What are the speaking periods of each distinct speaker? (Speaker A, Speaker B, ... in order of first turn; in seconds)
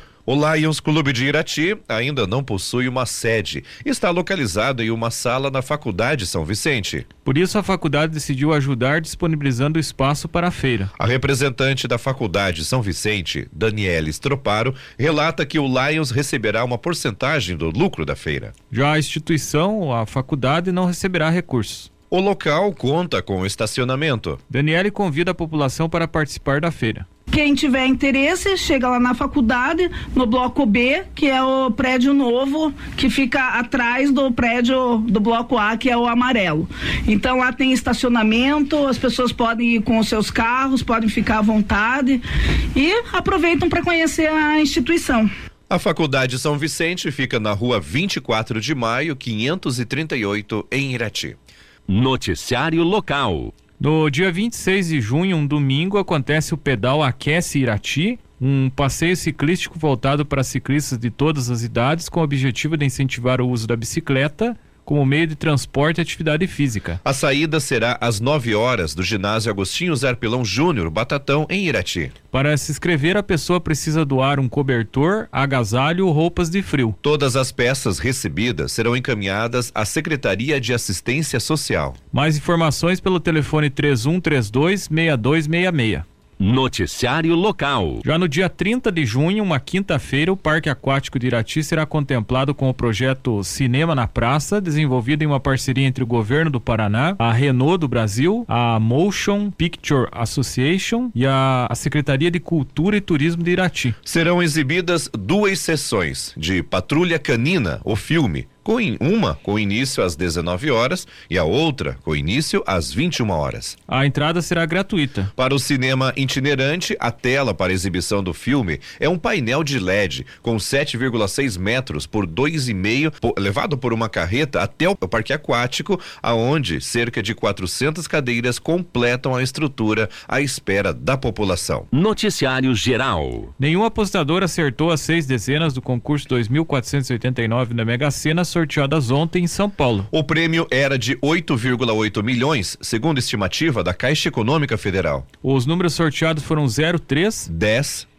Speaker A: 0.2-7.0, 11.0-18.5, 22.1-24.4, 45.7-51.4, 67.0-72.1, 77.0-82.0, 104.0-113.8, 115.3-131.9, 140.1-145.2, 147.5-148.1
Speaker B: 7.2-10.9, 18.7-21.9, 24.5-27.1, 53.8-67.0, 72.3-77.0, 82.1-86.0, 88.0-104.0, 113.9-115.3, 133.6-140.1, 145.4-147.5
Speaker C: 27.3-45.3
Speaker D: 51.9-53.5, 86.4-88.0, 131.9-133.5